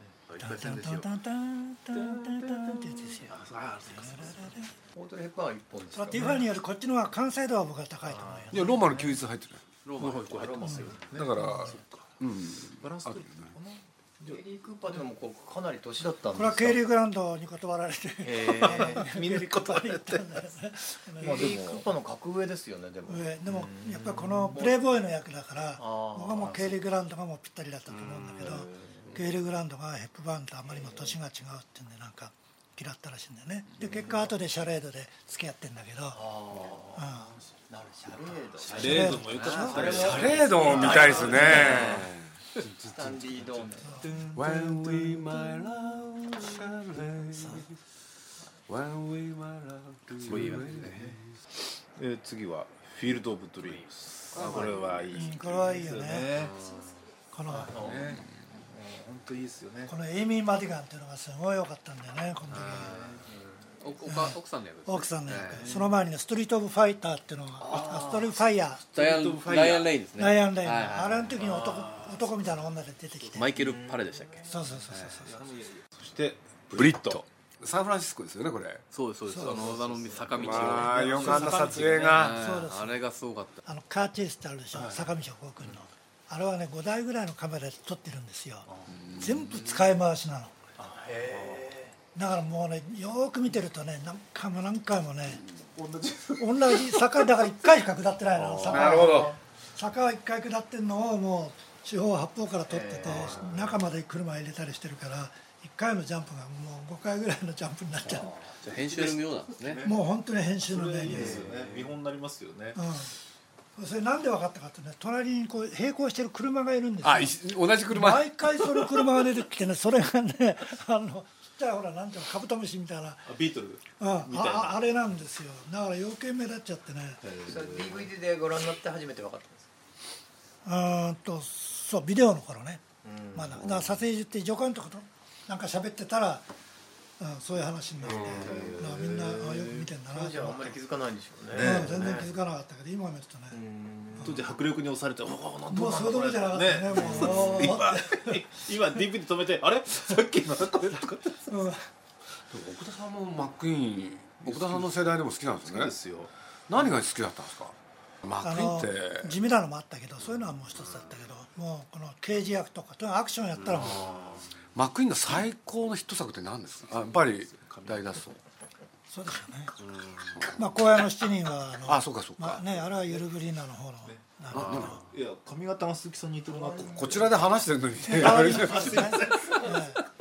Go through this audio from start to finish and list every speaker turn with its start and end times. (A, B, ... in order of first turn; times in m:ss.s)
0:00.3-0:01.1 A
0:00.4-0:03.3 B
0:01.9-0:04.4 C
0:03.3-0:04.4 A
0:04.0-0:04.7 B
0:04.9-0:06.4 D
0:05.9-0:08.8 B
0:08.5-0:09.6 E
0:09.8-0:10.9 A
0:10.0-0:14.4 C
0:10.3-0:11.2 D
0:11.1-0:13.5 E
0:14.2-0:16.8 D
0:16.3-0:21.6 B
0:18.2-0:20.5 C
0:18.5-0:19.0 D
0:21.2-0:24.8 D
0:21.2-0:21.9 C
0:23.1-0:36.2 B
0:25.8-0:26.8 D
0:28.0-0:28.6 A
0:28.4-0:29.0 C
0:30.7-0:31.1 D
0:36.1-0:42.1 D
0:36.5-0:37.0 C
0:36.9-0:37.3 B
0:38.6-0:42.0 C
0:38.8-0:39.8 B
0:39.7-0:42.3 E
0:42.6-0:45.7 C
0:42.8-0:44.0 D
0:44.3-0:47.7 E
0:47.4-0:47.6 B
0:48.7-0:51.2 E
0:50.2-0:51.1 A
0:50.2-0:51.2 C
0:52.0-0:56.6 C
0:53.6-0:55.0 A
0:54.3-0:55.3 E
0:55.1-0:56.3 B
0:56.3-0:57.0 A
0:57.3-0:57.7 B
0:57.5-0:59.9 C
0:57.7-0:58.1 D
0:57.8-0:58.2 E
0:59.9-1:02.9 B
1:02.5-1:03.2 A
1:02.8-1:03.2 C
1:03.8-1:05.7 A
1:04.0-1:08.8 B
1:05.5-1:06.0 C
1:07.6-1:08.1 D
1:07.6-1:08.4 C
1:08.9-1:10.0 C
1:08.9-1:11.4 A
1:10.2-1:13.5 B
1:11.3-1:12.6 C
1:13.3-1:15.2 A
1:13.4-1:17.2 C
1:14.5-1:15.4 B
1:16.7-1:18.8 E
1:18.9-1:23.6 A
1:19.3-1:19.6 B
1:19.3-1:22.3 C
1:20.3-1:22.4 E
1:22.3-1:23.0 B
1:23.6-1:30.6 B
1:24.7-1:25.7 C
1:28.7-1:29.0 C
1:29.0-1:29.5 E
1:30.8-1:31.9 C
1:31.2-1:31.7 A
1:32.1-1:35.4 B
1:35.7-1:37.3 C
1:36.4-1:48.3 B
1:38.4-1:39.2 C
1:38.7-1:39.4 E
1:42.9-1:43.4 D
1:43.0-1:43.6 C
1:48.1-1:52.8 C
1:48.6-1:49.8 A
1:49.8-1:51.4 B
1:51.2-1:51.6 A
1:52.7-1:53.1 B
1:53.8-2:03.3 B
1:57.0-1:59.2 E
2:03.2-2:04.8 C
2:04.0-2:07.2 B
2:07.2-2:08.1 C
2:07.4-2:09.7 D
2:10.6-2:12.8 B
2:13.0-2:13.7 D
2:13.3-2:16.5 B
2:17.2-2:20.7 B
2:18.0-2:19.9 C
2:18.1-2:18.8 D
2:20.0-2:22.3 D
2:21.5-2:22.3 C
2:21.5-2:23.6 B
2:23.5-2:24.5 D
2:24.2-2:31.5 C
2:25.7-2:28.4 B
2:27.0-2:27.5 D
2:31.5-2:31.8 B
2:32.5-2:36.0 E
2:34.4-2:35.0 C
2:35.6-2:36.3 C
2:36.7-2:39.4 E
2:38.4-2:44.1 B
2:43.7-2:44.4 A
2:43.8-2:44.5 C
2:44.7-2:48.4 E
2:46.9-2:48.2 C
2:49.1-2:49.7 B
2:49.8-2:50.5 A
2:50.5-2:55.0 B
2:51.8-2:52.8 E
2:54.0-2:57.4 C
2:54.5-2:55.0 E
2:56.9-2:59.3 E
2:58.0-3:00.0 B
2:58.1-2:59.8 C